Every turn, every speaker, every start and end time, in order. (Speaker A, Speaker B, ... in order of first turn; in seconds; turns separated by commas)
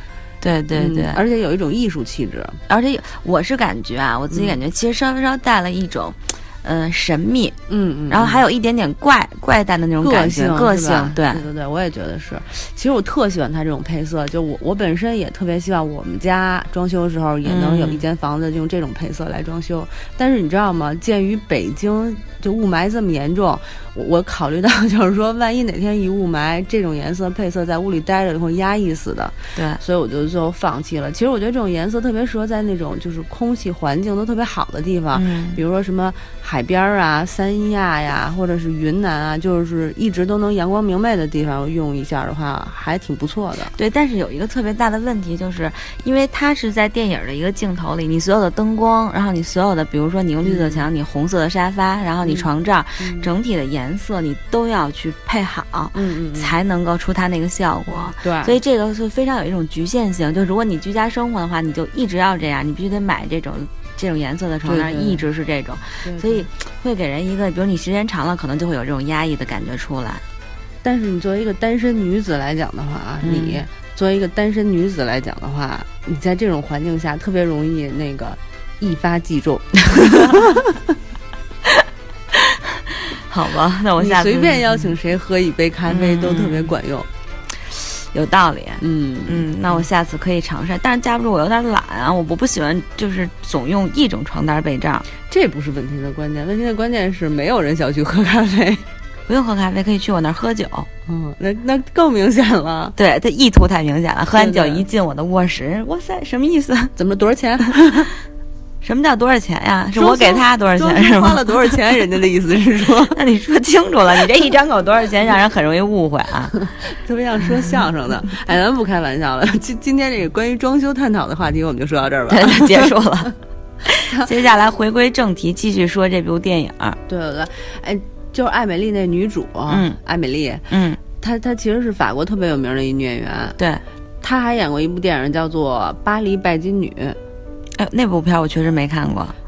Speaker A: 0.4-1.2, Speaker B: 0.7-2.6, Speaker A: 2.7-7.6, Speaker B: 4.3-4.6, Speaker B: 7.7-8.4, Speaker A: 8.1-11.4, Speaker B: 10.0-43.7, Speaker A: 17.4-18.0, Speaker A: 29.6-29.8, Speaker A: 35.1-35.6, Speaker A: 43.7-70.2, Speaker B: 50.4-50.9, Speaker B: 52.2-53.3, Speaker B: 55.9-56.5, Speaker B: 57.9-58.6, Speaker B: 64.6-65.2, Speaker B: 66.0-66.5, Speaker B: 70.8-80.7, Speaker A: 73.2-73.6, Speaker A: 82.3-84.9, Speaker B: 84.0-87.1, Speaker A: 85.9-86.7, Speaker A: 87.7-95.1, Speaker B: 88.8-89.8, Speaker B: 95.3-98.8, Speaker A: 99.3-100.9, Speaker B: 101.1-103.0, Speaker A: 103.0-106.9, Speaker B: 104.3-104.8, Speaker B: 107.0-108.1, Speaker A: 108.8-111.8, Speaker B: 109.9-113.2, Speaker A: 113.1-116.6, Speaker B: 116.9-122.9, Speaker A: 122.3-127.0, Speaker B: 127.1-130.7, Speaker A: 129.7-130.0, Speaker A: 130.7-131.0, Speaker B: 131.2-133.6, Speaker B: 134.2-137.2, Speaker A: 137.7-139.3